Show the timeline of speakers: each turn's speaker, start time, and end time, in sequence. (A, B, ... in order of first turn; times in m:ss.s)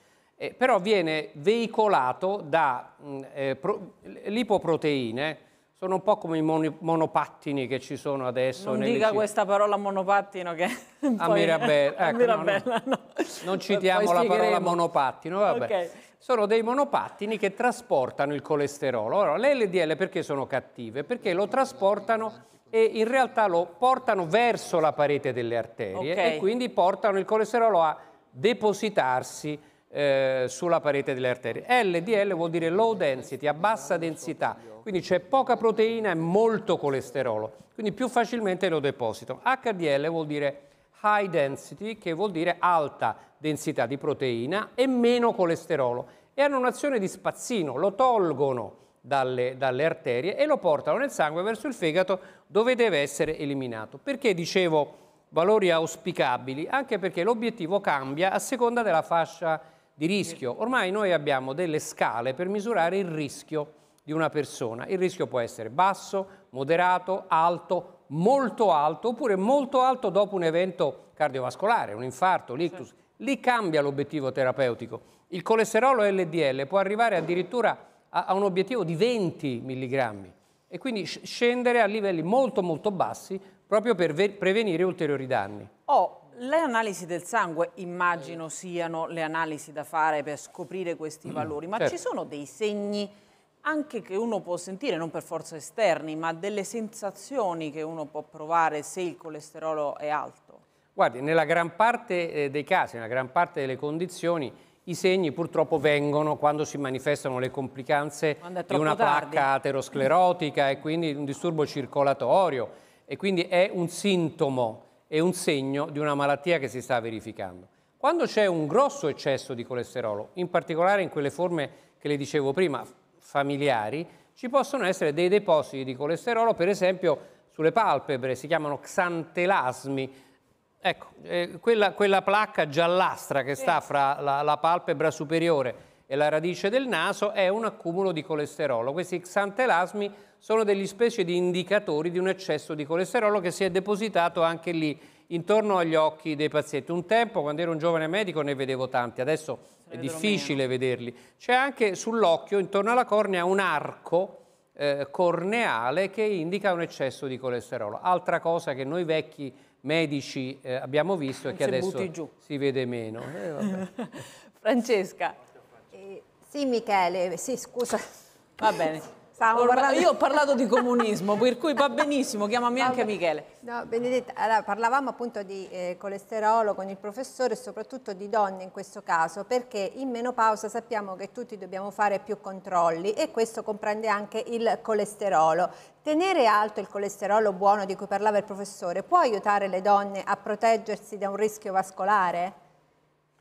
0:00.4-0:09.2 A
0:08.6-0:14.8 B
0:11.2-0:12.6 A
0:13.4-1:25.7 A
0:15.4-0:15.9 B
0:25.9-0:26.4 B
1:25.9-1:40.6 B
1:41.0-2:10.1 A
1:48.4-1:49.5 B
2:10.8-2:43.8 A
2:29.9-2:30.6 B
2:41.5-2:42.3 B
2:43.8-2:45.3 B
2:45.9-2:48.0 C
2:48.6-2:53.5 B
2:49.3-2:50.2 C
2:52.8-2:53.1 C
2:53.6-3:12.5 C